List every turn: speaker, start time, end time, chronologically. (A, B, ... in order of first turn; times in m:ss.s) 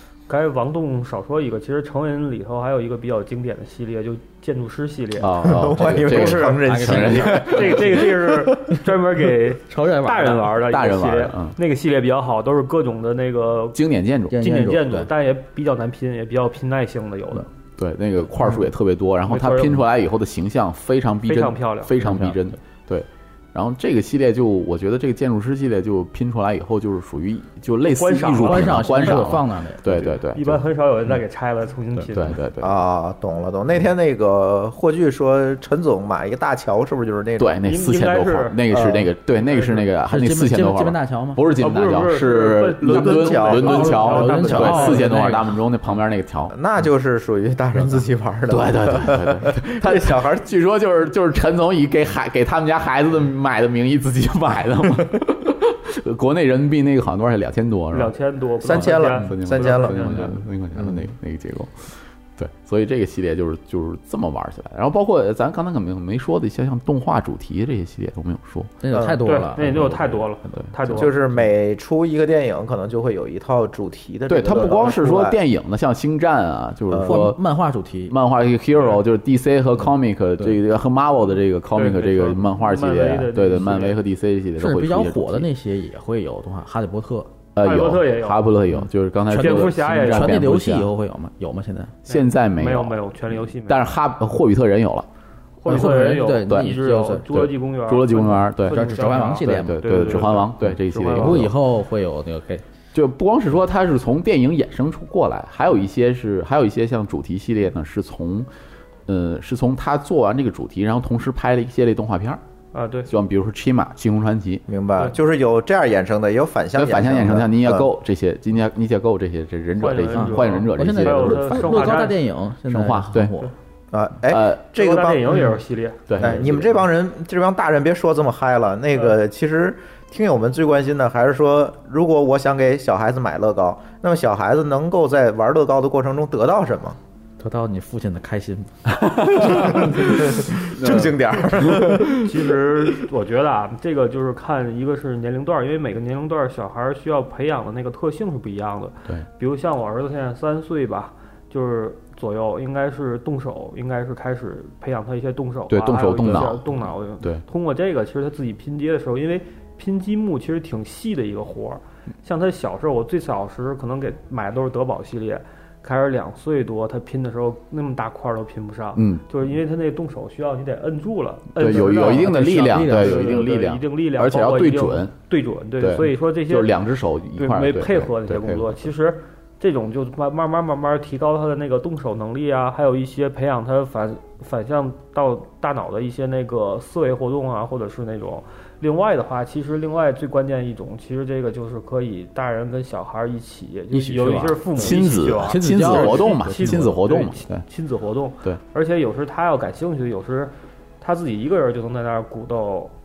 0:00.3-0:05.5 A
0:05.2-0:07.9 B
0:05.4-0:08.0 C
0:06.1-0:13.8 A
0:06.6-0:08.0 D
0:09.7-0:10.6 D
0:10.7-0:11.6 B
0:13.8-0:14.4 B
0:14.3-0:15.1 D
0:14.4-0:17.5 A
0:17.8-0:30.6 B
0:19.3-0:19.8 A
0:21.3-0:21.9 A
0:22.0-0:22.4 D
0:28.0-0:29.3 A
0:28.4-0:30.2 D
0:30.4-0:32.4 A
0:32.1-0:32.8 B
0:32.6-0:37.6 C
0:37.4-0:46.6 B
0:37.6-0:38.6 A
0:38.7-0:39.1 C
0:39.4-0:39.8 A
0:40.0-0:41.4 D
0:41.6-0:45.1 A
0:42.8-0:44.8 C
0:43.6-0:45.6 D
0:46.5-0:50.5 C
0:47.8-0:58.1 B
0:57.9-1:00.3 A
0:58.6-1:00.2 C
0:58.7-1:08.7 B
1:00.8-1:01.1 C
1:08.8-1:10.3 D
1:08.9-1:09.2 C
1:09.2-1:11.2 A
1:09.7-1:09.9 B
1:10.9-1:15.4 C
1:14.3-1:17.4 B
1:16.9-1:17.3 C
1:17.0-1:18.2 D
1:18.1-1:25.5 B
1:21.8-1:24.0 A
1:24.6-1:27.3 D
1:27.6-1:30.9 B
1:27.6-1:28.5 A
1:28.8-1:32.0 D
1:29.4-1:30.4 A
1:32.1-1:33.0 B
1:32.1-1:33.9 A
1:33.6-1:35.1 B
1:35.6-1:41.5 A
1:35.7-1:37.4 D
1:35.7-1:41.6 B
1:38.6-1:42.6 D
1:42.9-1:48.5 B
1:49.1-1:52.4 B
1:52.7-1:53.1 A
1:53.1-1:54.6 B
1:54.7-1:57.9 C
1:56.8-2:02.1 B
1:59.8-2:02.2 A
2:00.1-2:03.5 D
2:02.7-2:03.4 B
2:03.9-2:05.6 C
2:04.3-2:04.6 B
2:04.8-2:06.0 A
2:06.1-2:06.7 B
2:06.2-2:17.0 C
2:06.2-2:06.5 D
2:17.4-2:18.7 D
2:19.2-2:22.2 B
2:19.4-2:22.2 C
2:22.2-2:56.7 A
2:35.7-2:36.7 B
2:49.0-2:49.2 B
2:51.6-2:55.2 B
2:51.6-2:53.4 D
2:55.8-2:58.9 B
2:57.4-3:22.9 A
3:13.9-3:16.9 D
3:14.8-3:17.7 B